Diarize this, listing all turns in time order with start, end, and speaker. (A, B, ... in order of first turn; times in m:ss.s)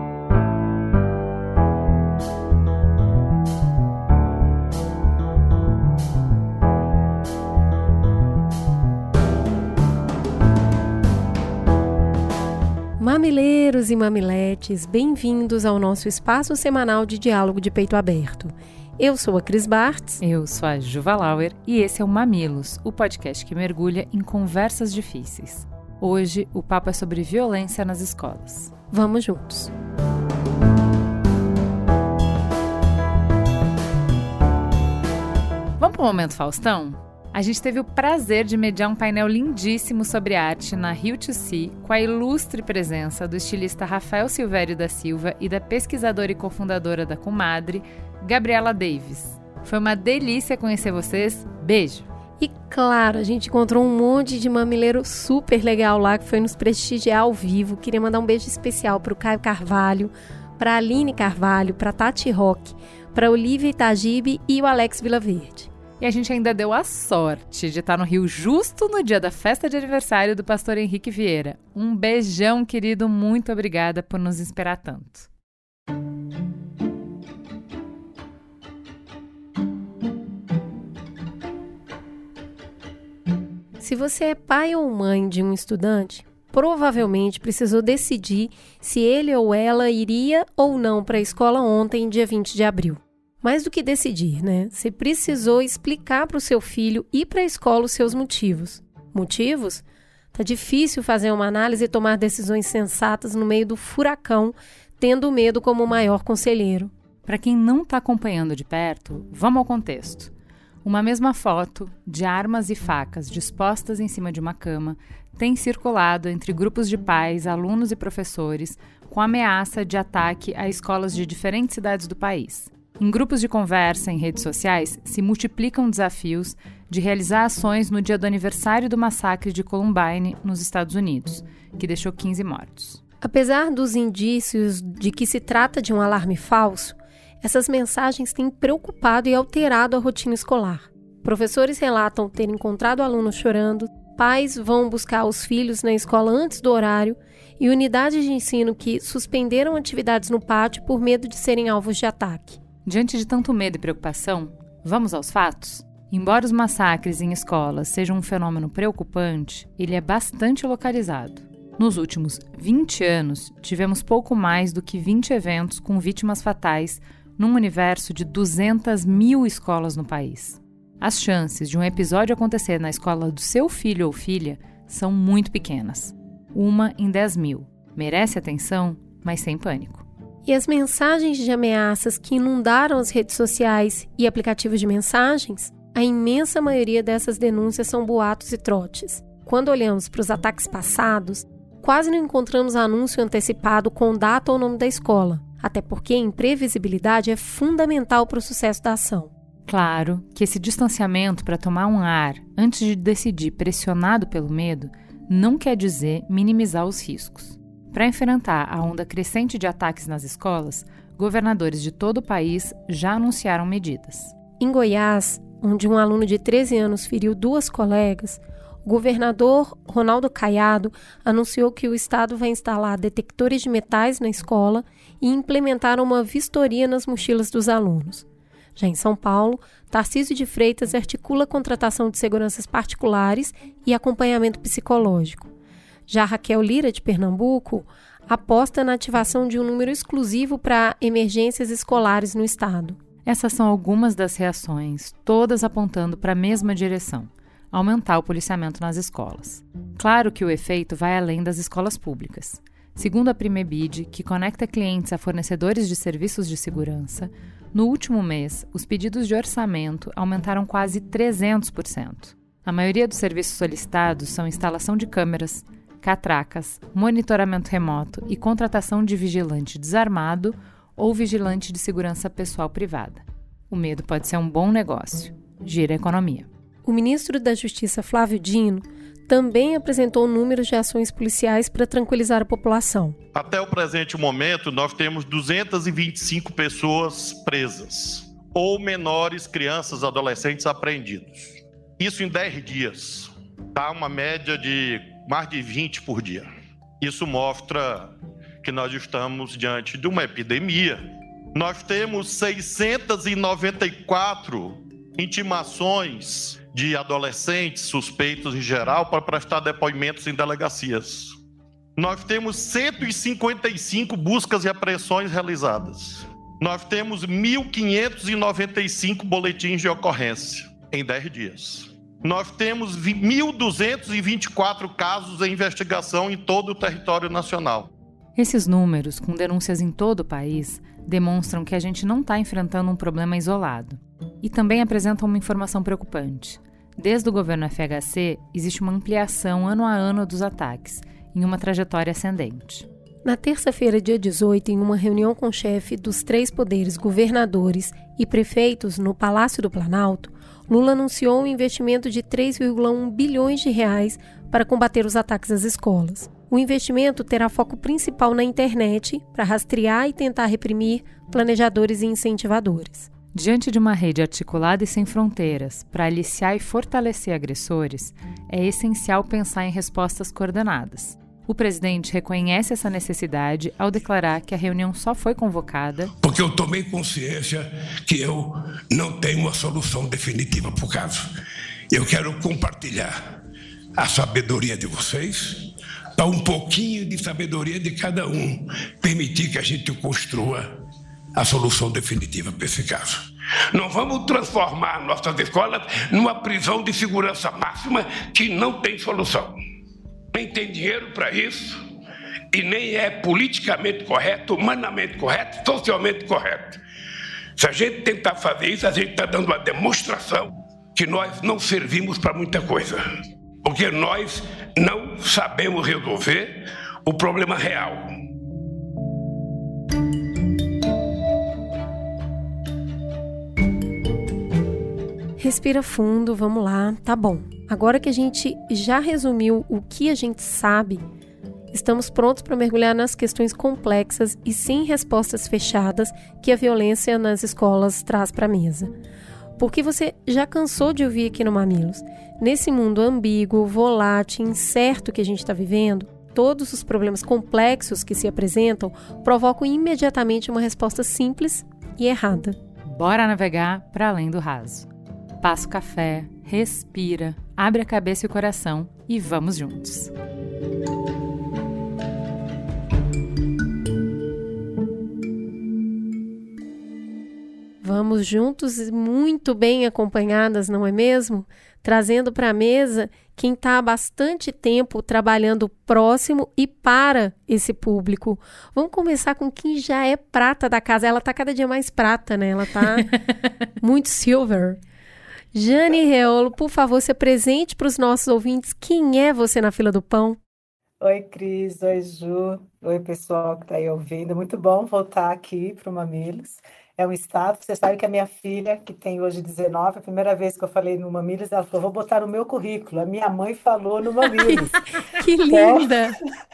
0:13.0-0:20.2 A
0:20.2-0:28.7 B
0:28.9-0:29.7 A
0:35.8-0:52.1 B
0:52.4-1:05.7 A
1:06.0-1:15.3 B
1:23.8-1:46.9 A
1:47.3-1:50.3 B
1:50.8-2:13.0 B
2:13.2-2:32.6 A
2:32.8-3:00.0 B
3:00.4-3:19.3 A
3:19.7-3:34.3 B
3:34.6-3:55.5 A
3:56.1-4:03.0 A
4:03.2-4:36.5 B
4:36.8-4:43.2 A
4:43.3-4:56.5 C
4:57.0-5:11.4 C
5:12.0-5:27.9 C
5:28.4-5:42.9 B
5:43.2-6:03.1 A
6:03.3-6:16.1 B
6:16.2-6:21.2 D
6:21.9-6:23.1 D
6:24.0-6:30.7 D
6:31.4-6:39.5 D
6:40.3-6:41.8 D
6:42.5-6:46.8 D
6:47.6-6:53.0 D
6:53.6-6:58.1 D
7:05.4-7:11.0 A
7:11.7-7:18.9 A
7:19.6-7:32.6 A
7:32.9-7:34.9 B
7:35.4-7:40.1 B
7:47.8-8:03.2 A
8:03.8-8:04.8 A
8:05.5-8:10.4 A
8:11.0-8:24.8 E
8:24.4-8:26.2 A
8:25.5-8:25.9 E